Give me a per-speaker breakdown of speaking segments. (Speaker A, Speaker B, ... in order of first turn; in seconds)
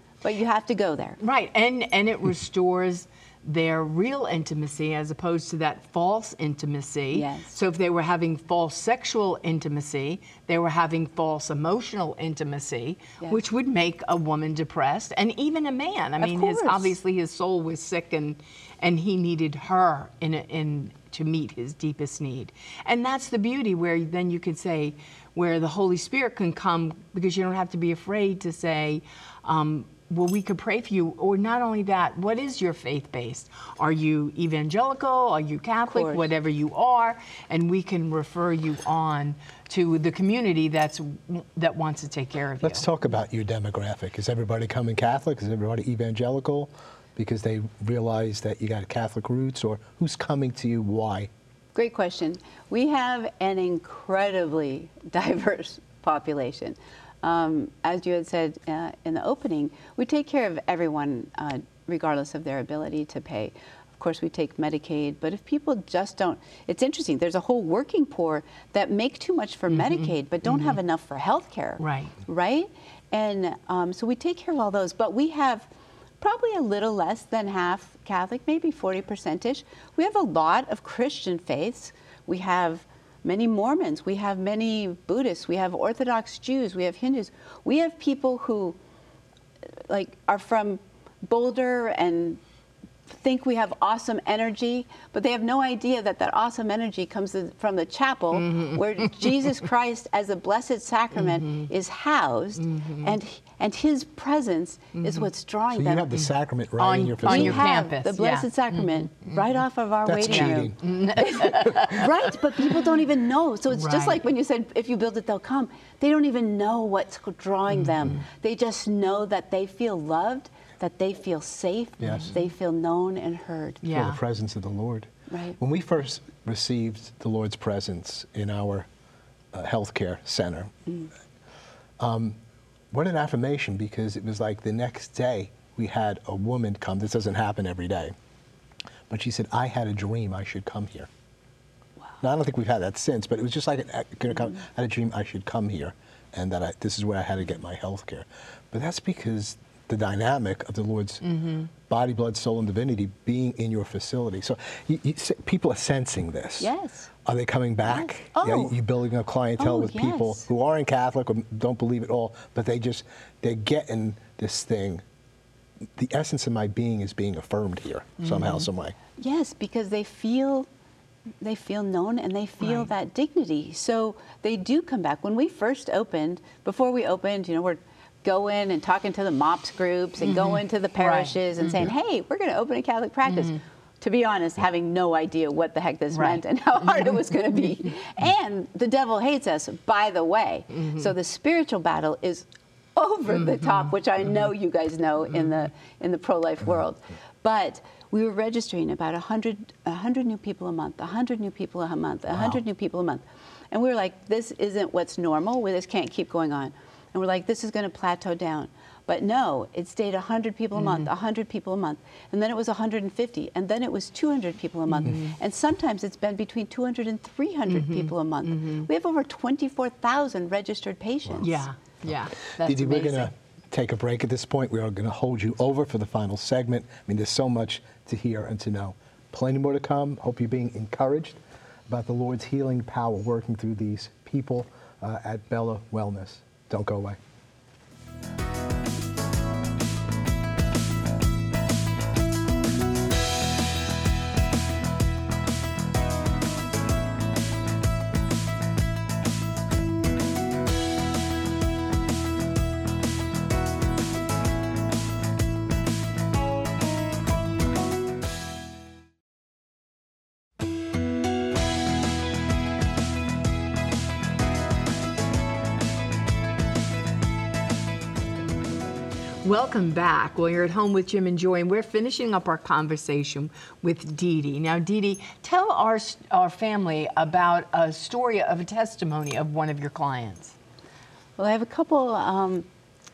Speaker A: 0.2-1.2, 7.1-7.5, 16.2-16.9, 35.9-36.3, 51.7-75.7, 76.2-88.8, 89.9-92.4, 93.1-106.1, 107.2-123.8, 125.3-125.6, 156.6-157.1, 157.8-158.7, 159.6-160.4, 169.2-170.7, 171.4-221.6, 281.4-282.7
Speaker B: 1.2-42.9, 69.8-70.8, 71.8-72.2, 98.4-99.5, 101.2-101.7, 102.6-103.1, 105.0-105.3, 106.2-109.3, 110.2-112.1, 113.7-114.2, 117.8-118.2, 123.8-124.2, 151.3-151.7, 168.2-168.6, 172.6-172.9, 180.3-181.9, 186.1-186.4, 210.8-211.1, 214.9-215.3, 217.7-218.9, 221.4-223.3, 269.4-280.6
Speaker C: 42.6-51.3, 105.7-107.7, 110.0-111.8, 122.0-122.3, 123.9-128.9, 129.5-130.7, 132.0-132.4, 132.9-138.1, 139.1-141.1, 142.2-151.2, 151.8-156.7, 157.2-165.0, 166.0-168.9, 222.6-237.2